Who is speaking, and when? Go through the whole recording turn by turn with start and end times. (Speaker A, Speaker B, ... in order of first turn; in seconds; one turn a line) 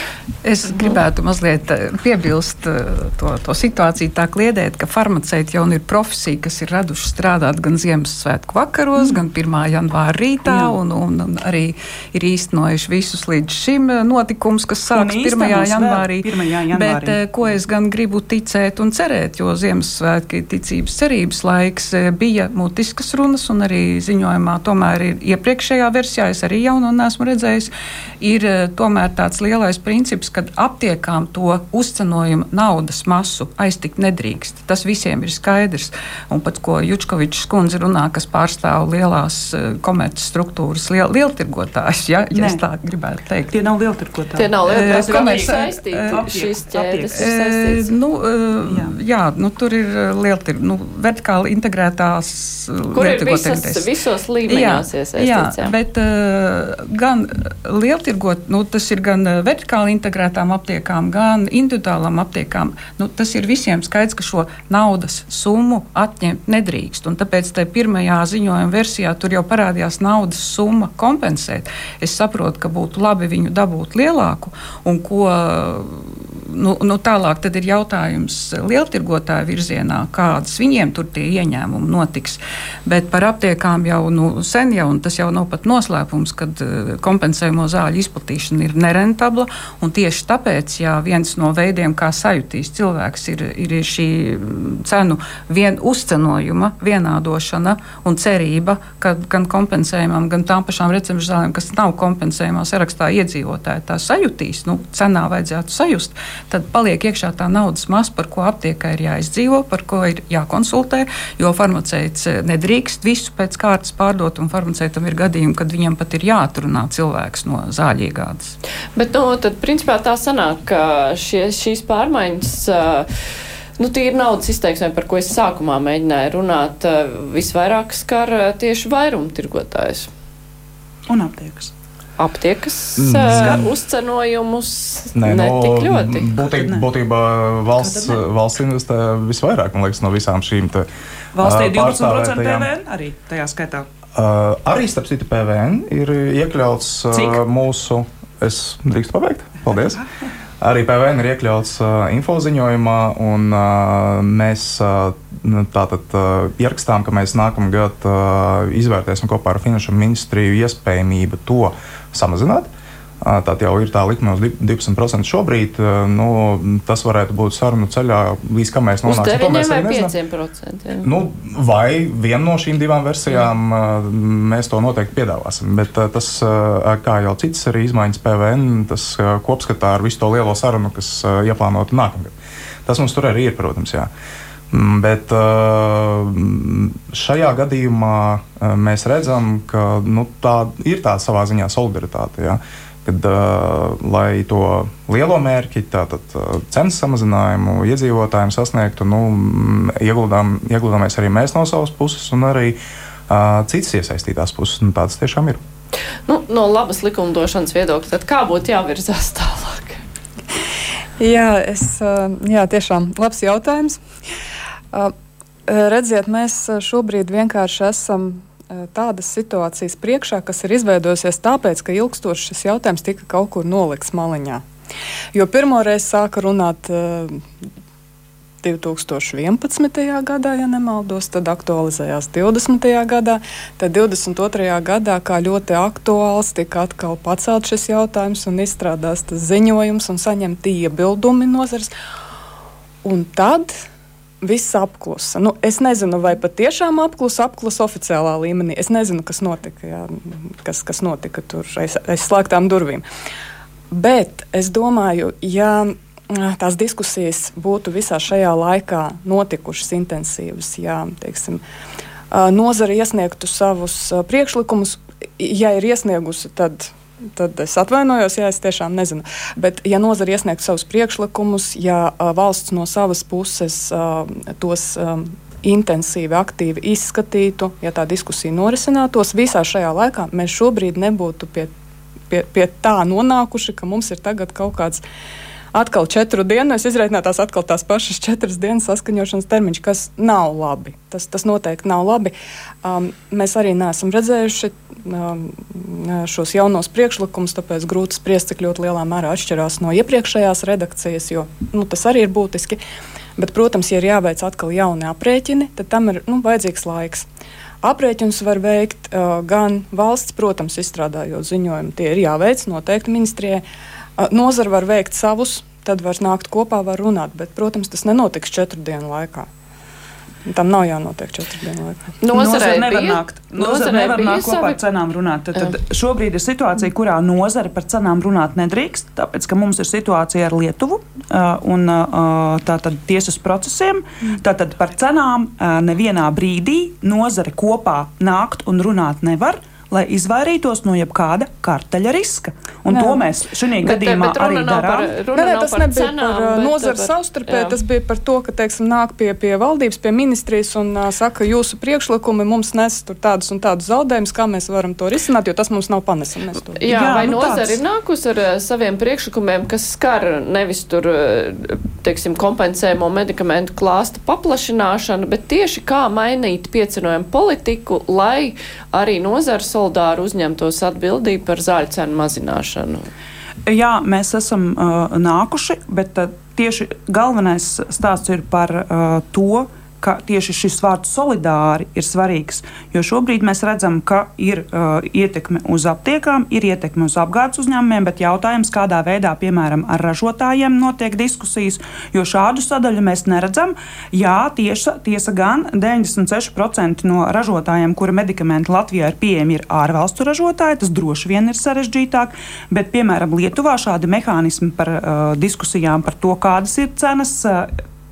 Speaker A: 0.4-43.5
Speaker B: 10.4-10.8
Speaker B: 14.9-17.2
Speaker B: 42.3-42.6
Speaker B: 43.5-47.3
Speaker C: 44.3-47.9
Speaker A: 44.7-46.3
Speaker A: 47.1-53.9
Speaker B: 48.6-48.9
Speaker C: 52.9-55.7
Speaker A: 54.5-118.5
Speaker C: 119.0-123.1
Speaker C: 123.8-130.1
Speaker B: 131.1-131.7
Speaker C: 132.2-136.3
Speaker D: 133.0-133.7
Speaker B: 133.2-133.6
Speaker D: 135.1-140.9
Speaker B: 136.4-136.9
Speaker B: 137.8-138.2
Speaker B: 141.3-143.9
Speaker D: 141.4-142.7
Speaker D: 144.1-150.0
Speaker B: 147.1-147.4
Speaker B: 149.7-150.0
Speaker D: 150.6-162.7
Speaker D: 163.2-170.1
Speaker C: 169.1-171.1
Speaker D: 171.0-182.3
Speaker D: 182.8-184.1
Speaker D: 184.7-205.6
Speaker C: 206.2-210.0
Speaker E: 211.2-214.0
Speaker E: 215.7-224.6
Speaker E: 225.3-227.4
Speaker E: 228.6-241.9
Speaker E: 243.0-243.8
Speaker E: 244.4-253.0
Speaker E: 253.9-261.6
Speaker E: 262.3-281.7
Speaker E: 282.3-285.0
Speaker E: 285.7-302.8
Speaker E: 303.4-307.3
Speaker E: 307.8-313.6
Speaker E: 314.2-319.5
Speaker E: 320.4-322.1
Speaker C: 322.2-324.8
Speaker B: 322.3-345.2
Speaker E: 342.9-343.2
Speaker C: 343.8-347.7
Speaker E: 345.3-357.2
Speaker C: 356.8-373.0
Speaker B: 356.9-357.8
Speaker B: 373.6-407.7